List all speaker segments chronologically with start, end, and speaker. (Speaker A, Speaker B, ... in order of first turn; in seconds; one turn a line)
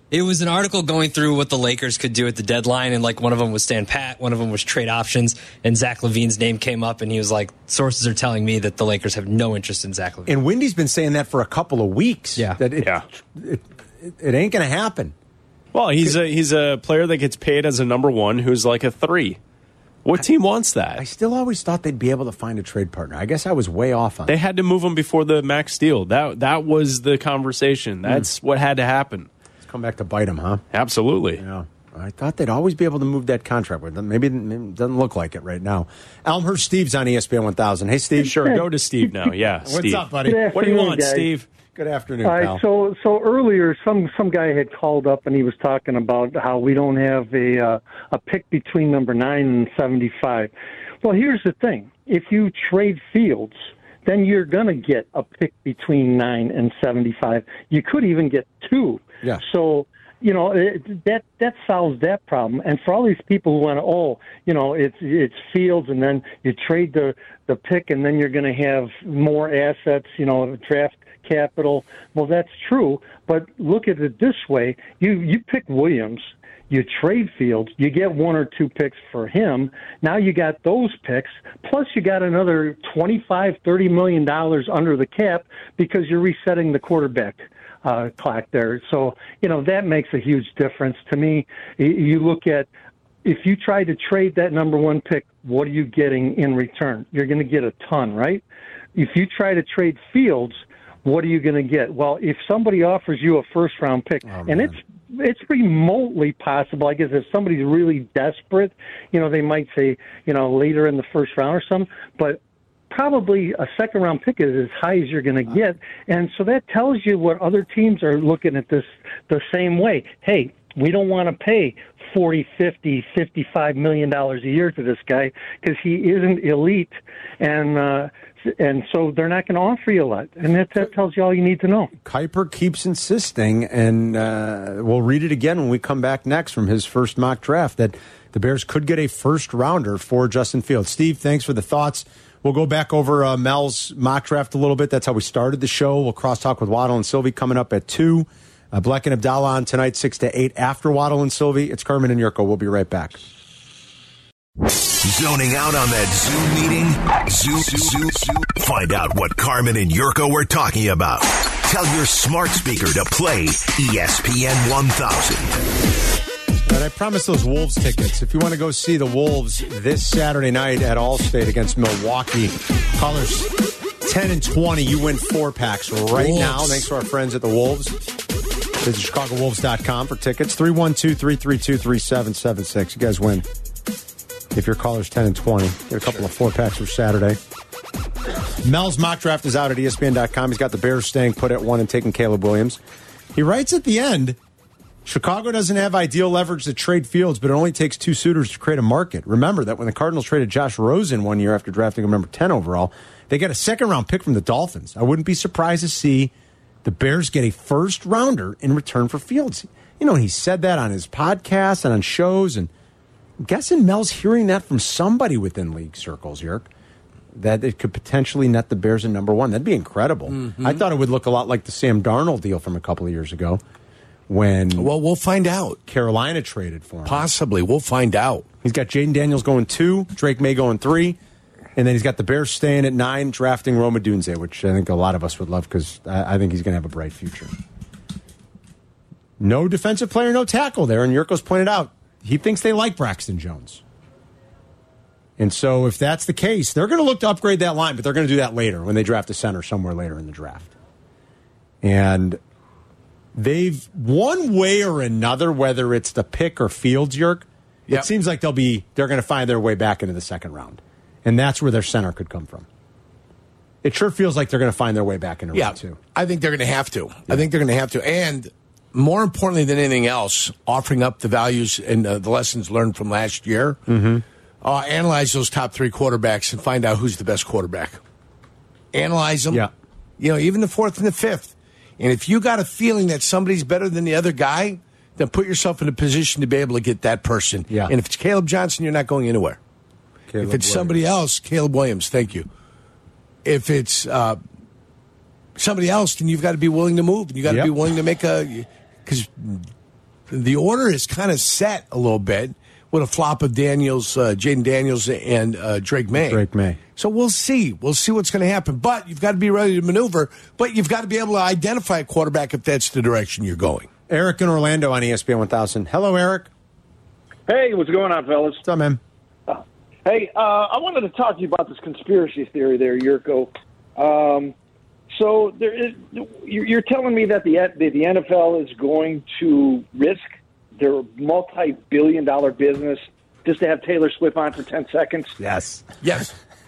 Speaker A: 0.1-10.3
Speaker B: 10.2-15.1
Speaker C: 15.7-19.4
Speaker C: 20.0-21.0
Speaker B: 20.9-24.4
Speaker C: 24.3-29.3
Speaker B: 29.6-30.6
Speaker C: 30.7-31.4
Speaker B: 31.4-38.6
Speaker D: 38.2-39.3
Speaker C: 38.4-41.5
Speaker B: 39.6-40.5
Speaker D: 40.2-41.3
Speaker B: 41.7-42.6
Speaker D: 42.2-92.7
Speaker D: 93.2-98.4
Speaker D: 98.9-131.9
Speaker B: 104.3-104.8
Speaker B: 132.0-153.2
Speaker E: 155.0-165.6
Speaker B: 166.7-173.5
Speaker B: 174.0-177.9
Speaker F: 176.1-176.8
Speaker B: 178.8-183.4
Speaker B: 184.5-187.4
Speaker B: 188.6-192.8
Speaker B: 193.3-194.4
Speaker B: 195.0-206.3
Speaker B: 206.8-212.7
Speaker B: 213.4-216.7
Speaker B: 217.3-223.6
Speaker F: 220.3-220.8
Speaker B: 224.3-224.9
Speaker F: 224.8-225.8
Speaker B: 225.9-227.3
Speaker F: 227.0-228.4
Speaker B: 228.6-231.2
Speaker B: 231.8-237.5
Speaker B: 239.4-243.8
Speaker B: 245.4-250.7
Speaker B: 251.8-252.4
Speaker B: 253.3-262.6
Speaker B: 263.8-266.0
Speaker F: 265.5-273.8
Speaker B: 273.9-274.2
Speaker F: 274.6-278.0
Speaker F: 278.9-279.6
Speaker F: 280.2-289.6
Speaker B: 287.7-287.9
Speaker B: 290.3-291.0
Speaker F: 290.4-292.5
Speaker F: 293.4-294.4
Speaker F: 295.6-299.6
Speaker B: 297.4-297.7
Speaker F: 300.3-306.4
Speaker B: 306.1-306.8
Speaker F: 306.9-313.9
Speaker B: 314.1-316.5
Speaker G: 317.5-318.6
Speaker B: 318.6-319.0
Speaker G: 319.5-324.5
Speaker G: 325.1-335.3
Speaker B: 335.4-335.9
Speaker F: 336.0-336.3